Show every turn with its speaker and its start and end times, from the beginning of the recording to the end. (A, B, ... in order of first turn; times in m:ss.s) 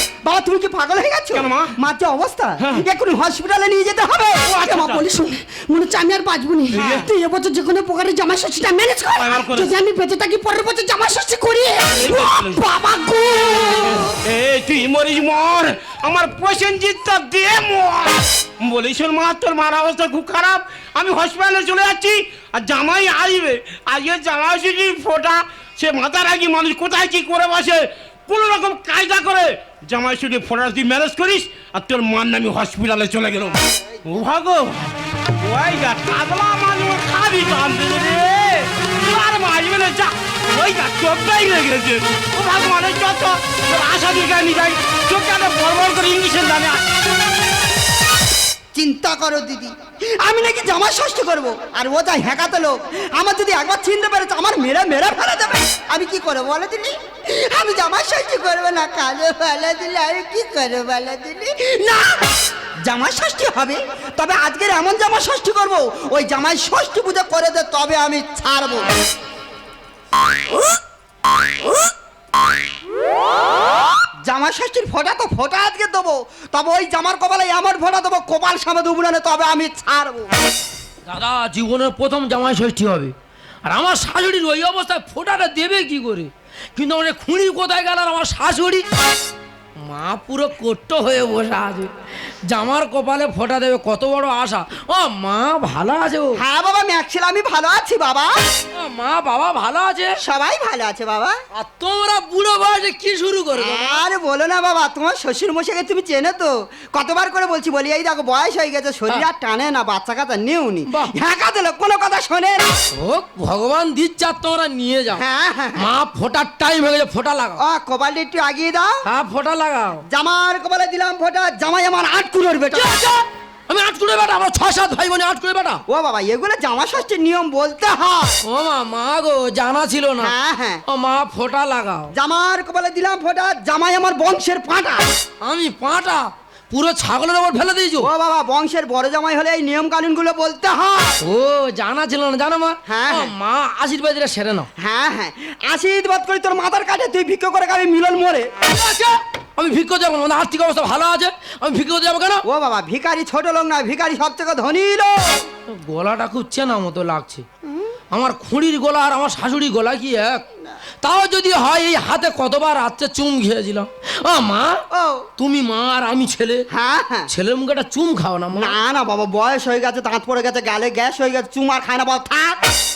0:00.2-0:04.5 A
0:01.3-0:01.7 B
0:02.6-0:02.8 B
0:04.4-0:05.0 B
0:04.6-0:14.2 C
0:06.7-0:07.1 B
0:06.8-0:07.0 A
0:09.2-0:09.7 B
0:11.9-0:12.7 B
0:13.8-0:34.9 B
0:35.4-0:46.8 B
0:48.7-1:02.3 A
1:02.8-1:08.9 A
1:14.3-1:20.3 A
1:21.1-1:23.1 D
1:23.6-1:28.8 D
1:29.9-1:31.9 D
1:32.5-1:36.4 D
1:36.4-1:38.4 A
1:38.7-1:40.2 D
1:40.2-1:41.4 A
1:41.5-1:44.0 D
1:43.6-1:52.8 A
1:50.9-1:51.2 D
1:52.9-1:55.2 D
1:55.1-1:55.9 A
1:55.8-1:57.6 D
1:57.6-1:59.0 A
1:59.0-2:00.0 D
2:00.0-2:03.0 A
2:02.7-2:05.8 D
2:05.9-2:08.4 A
2:08.4-2:10.3 D
2:10.2-2:10.8 A
2:10.9-2:12.1 D
2:12.1-2:15.0 A
2:15.4-2:18.1 D
2:18.0-2:21.2 A
2:21.2-2:24.7 D
2:22.9-2:23.3 A
2:24.8-2:28.5 A
2:28.7-2:32.4 D
2:32.4-2:35.4 A
2:35.7-2:37.4 D
2:38.1-2:40.4 D
2:41.0-2:44.8 D
2:44.9-2:45.3 A
2:45.4-2:46.6 D
2:46.7-2:47.3 A
2:47.3-2:48.8 D
2:48.5-2:52.6 A